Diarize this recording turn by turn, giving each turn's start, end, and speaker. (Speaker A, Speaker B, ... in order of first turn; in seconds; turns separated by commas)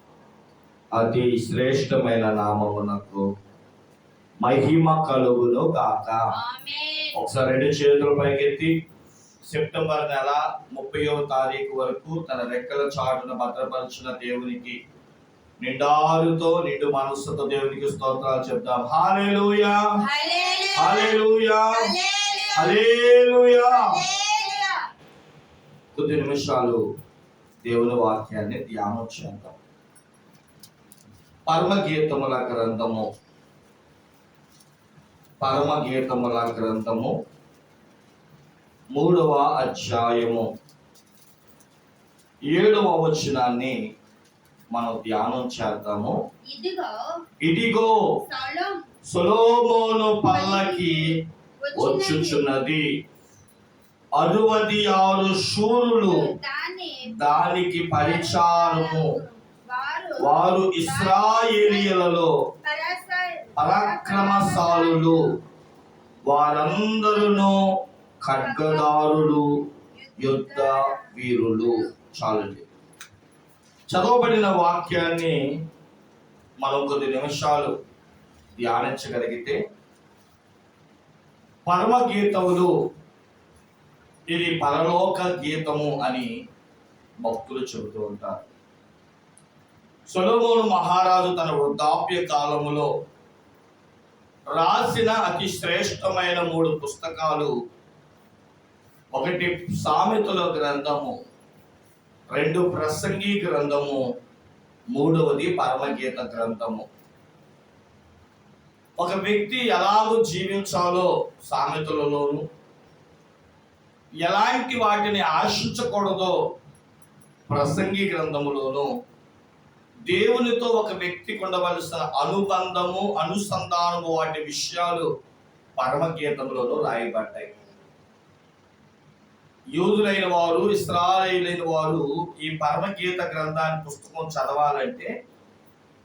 Speaker A: 0.9-3.3, Speaker A: 4.4-6.3, Speaker B: 6.4-7.1, Speaker A: 7.1-8.8, Speaker A: 9.5-14.8, Speaker A: 15.6-20.0, Speaker B: 20.0-23.0, Speaker A: 20.7-21.9, Speaker A: 22.5-24.0, Speaker B: 23.5-24.8, Speaker A: 25.9-26.8, Speaker A: 27.6-29.6, Speaker A: 31.5-33.1, Speaker A: 35.4-37.1, Speaker A: 38.9-40.5, Speaker A: 42.5-43.8, Speaker A: 44.7-46.2, Speaker B: 46.5-47.0, Speaker A: 47.4-48.1, Speaker B: 48.3-48.8, Speaker A: 49.1-51.2, Speaker B: 50.3-52.4, Speaker A: 51.7-53.0, Speaker A: 54.2-56.3, Speaker B: 56.0-57.3, Speaker A: 57.1-59.2, Speaker B: 57.9-62.0, Speaker A: 60.2-62.3, Speaker B: 62.6-65.3, Speaker A: 63.5-65.3, Speaker A: 66.2-67.7, Speaker B: 66.8-67.5, Speaker A: 68.2-69.6, Speaker B: 68.4-69.1, Speaker B: 69.9-71.9, Speaker A: 70.2-72.7, Speaker A: 73.9-75.6, Speaker A: 76.6-77.7, Speaker A: 78.6-79.6, Speaker A: 81.7-82.7, Speaker A: 84.3-86.3, Speaker A: 87.2-88.4, Speaker A: 90.1-92.9, Speaker A: 94.5-97.5, Speaker A: 99.1-101.2, Speaker A: 102.3-104.0, Speaker A: 104.9-106.9, Speaker A: 109.0-112.5, Speaker A: 114.2-116.3, Speaker A: 117.5-118.9, Speaker A: 120.1-125.1, Speaker A: 125.8-127.5, Speaker A: 129.8-135.1